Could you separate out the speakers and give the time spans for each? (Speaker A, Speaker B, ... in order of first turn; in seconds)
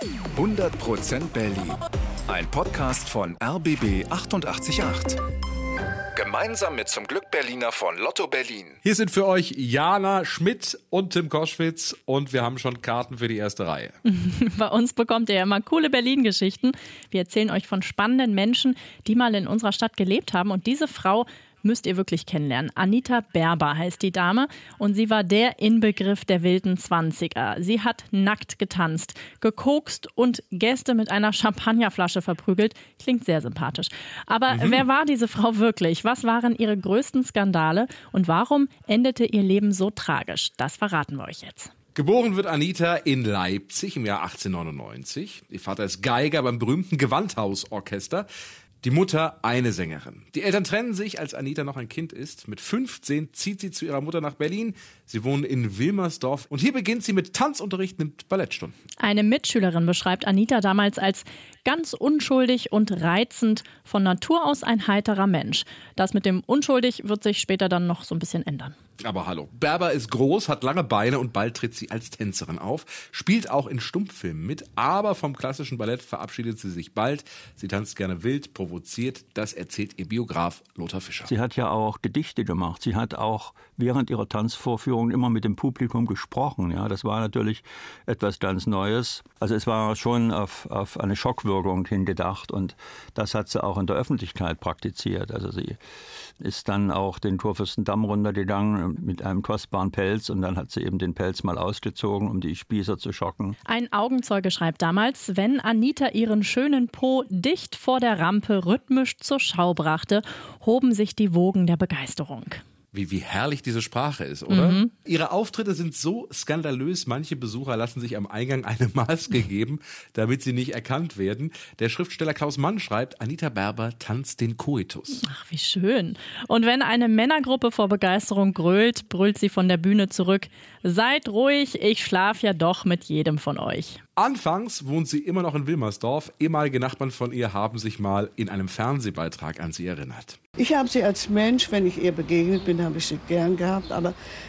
Speaker A: 0.3-5.2, 6.1-8.8
Speaker B: 8.8-14.0, 34.5-34.8, 41.9-48.3, 48.8-58.7, 69.0-81.3, 112.9-125.3, 134.2-140.4
Speaker C: 14.0-41.7, 59.0-68.7, 103.7-112.6, 114.5-114.9, 125.2-134.0
Speaker D: 81.3-95.8, 96.4-103.5
Speaker E: 140.6-144.1